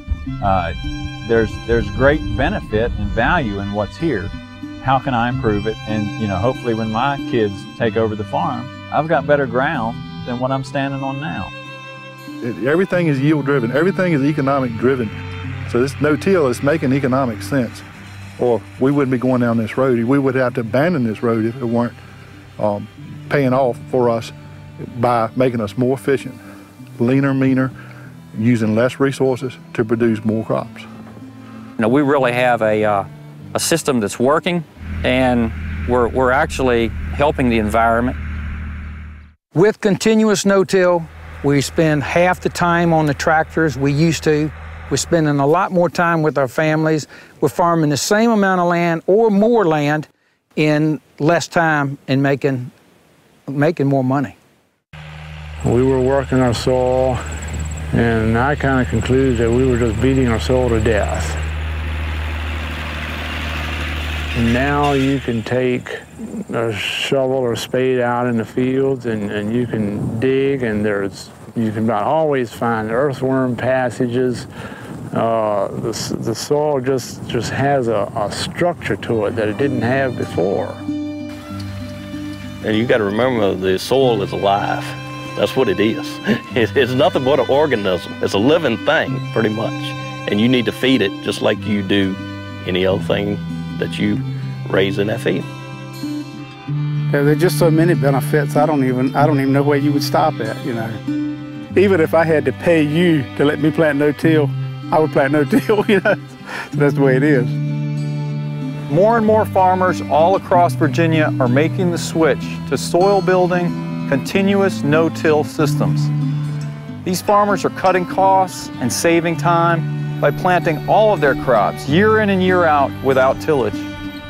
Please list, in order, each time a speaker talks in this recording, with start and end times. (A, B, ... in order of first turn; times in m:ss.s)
0:00.4-0:11.5 A
0:12.4-0:15.1 B
0:15.6-0:17.8 B
0:18.4-0:22.0 B
0:22.6-0:26.4 B
0:27.0-0:27.7 B
0:28.3-0:30.9 B
0:31.8-0:38.2 C
0:39.5-0:52.7 D
0:53.5-0:54.4 D
0:55.6-0:57.2 E
0:57.9-1:01.4 E
1:04.3-1:14.5 E
1:15.1-1:20.8 E
1:22.6-1:35.5 F
1:37.1-1:41.0 G
1:41.7-1:47.6 G
1:48.9-1:56.1 H
1:57.0-2:03.9 H